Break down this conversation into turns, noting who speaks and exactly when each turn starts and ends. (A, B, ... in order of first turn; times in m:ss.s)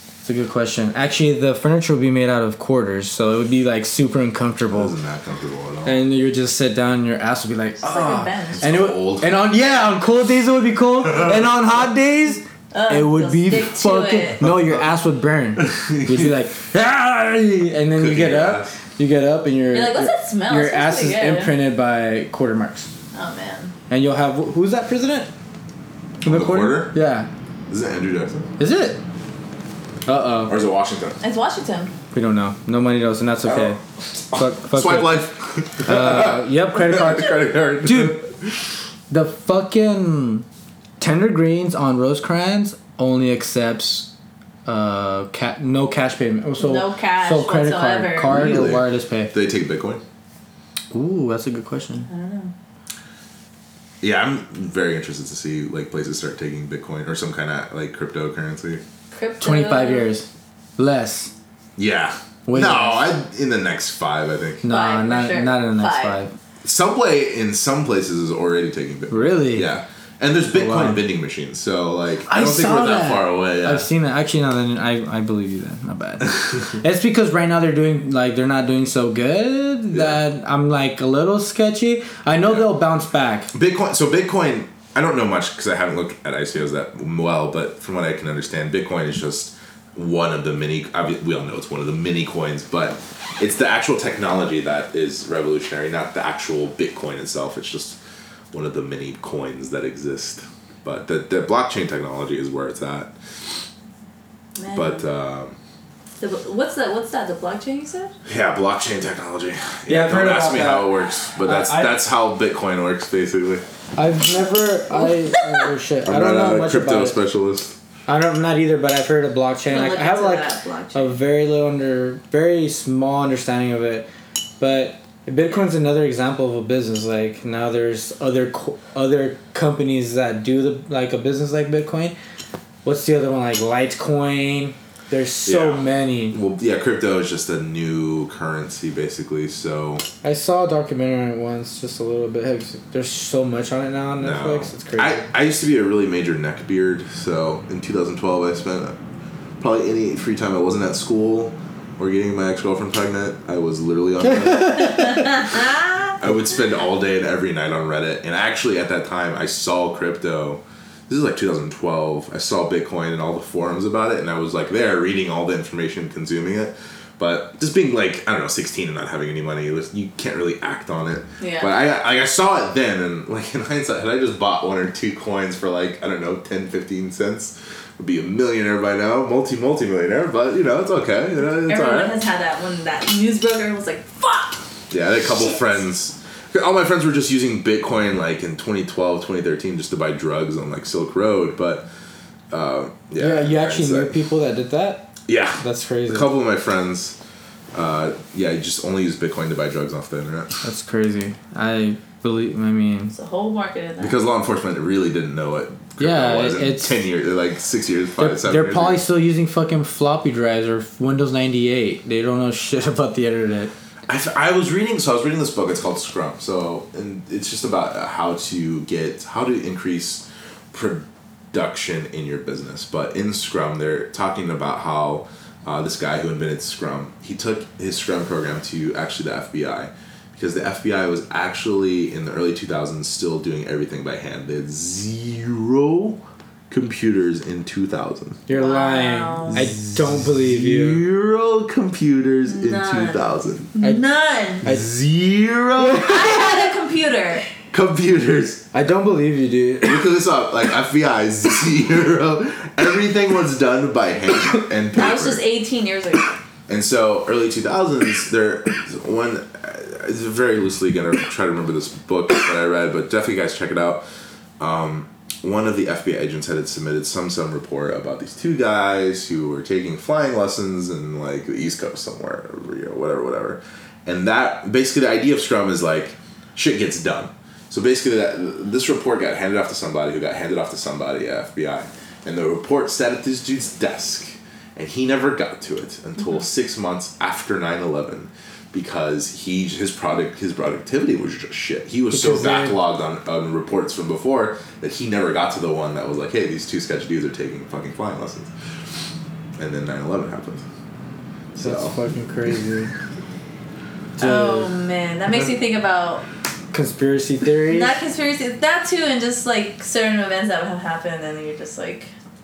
0:00.2-0:04.9 A
0:04.7-0:06.0 B
0:05.8-0:22.9 A
0:07.8-0:08.6 C
0:08.5-0:09.4 B
0:11.1-0:11.4 B
0:12.7-0:14.4 C
0:14.4-0:14.8 B
0:15.6-0:16.3 B
0:18.0-0:18.7 B
0:19.7-0:21.5 C
0:23.1-0:23.7 C
0:23.9-0:25.3 A
0:26.2-0:27.3 A
0:26.2-0:26.9 B
0:27.7-0:28.5 B
0:28.6-0:29.0 A
0:30.0-0:30.5 A
0:30.4-0:31.2 B
0:31.2-0:31.9 C
0:32.1-0:33.8 A
0:33.4-0:33.8 B
0:34.3-0:38.5 B
0:34.3-0:35.3 A
0:35.8-0:37.3 A
0:37.8-0:38.2 A
0:39.1-0:40.4 A
0:41.0-0:44.1 A
0:44.6-0:49.3 A
0:46.6-0:48.5 C
0:48.2-0:50.0 B
0:50.9-0:52.1 A
0:52.1-0:52.5 C
0:54.0-0:58.8 B
0:59.1-1:00.1 C
0:59.4-1:00.3 A
1:00.8-1:01.3 A
1:01.8-1:04.6 B
1:02.5-1:03.1 A
1:04.6-1:06.3 A
1:04.7-1:06.2 C
1:06.6-1:13.9 B
1:09.1-1:09.7 A
1:10.5-1:11.0 A
1:12.2-1:23.5 A
1:19.9-1:20.2 B
1:22.4-1:22.7 B
1:23.5-1:38.0 B
1:38.5-1:43.1 B
1:44.6-1:45.0 C
1:44.7-1:45.6 B
1:46.2-1:48.1 C
1:48.2-1:53.6 B
1:49.9-1:52.0 A
1:54.0-1:57.2 A
1:56.0-1:57.8 B
1:58.1-2:04.1 A
1:59.6-2:01.2 C
2:04.6-2:12.1 A
2:12.8-2:16.4 A
2:15.4-2:20.0 B
2:20.2-2:25.2 A
2:24.2-2:29.0 B
2:29.6-2:35.6 B
2:34.2-2:35.3 A
2:36.2-3:02.2 B
2:51.4-2:51.7 C
3:01.6-3:04.6 C
3:04.9-3:11.8 B
3:12.5-3:14.1 B
3:13.2-3:16.3 A
3:15.3-3:17.2 B
3:17.7-3:20.6 B
3:20.6-3:23.1 A
3:23.1-3:24.2 C
3:24.0-3:29.0 B
3:26.0-3:26.9 A
3:28.2-3:33.7 A
3:34.1-3:58.4 B
3:58.5-4:01.0 A
3:58.5-3:59.6 C
3:59.4-4:03.7 B
4:02.4-4:04.6 C
4:04.6-4:04.9 A
4:04.6-4:06.6 B
4:06.0-4:07.5 C
4:07.7-4:08.7 B
4:08.7-4:10.0 A
4:09.8-4:15.4 B
4:14.9-4:16.3 C
4:16.7-4:24.0 B
4:24.6-4:58.5 B
4:52.1-4:52.8 A
4:59.6-5:00.6 B
5:01.5-5:01.9 B
5:01.6-5:02.9 A
5:04.2-5:04.7 A
5:04.2-5:06.2 C
5:06.7-5:08.0 A
5:07.7-5:12.1 C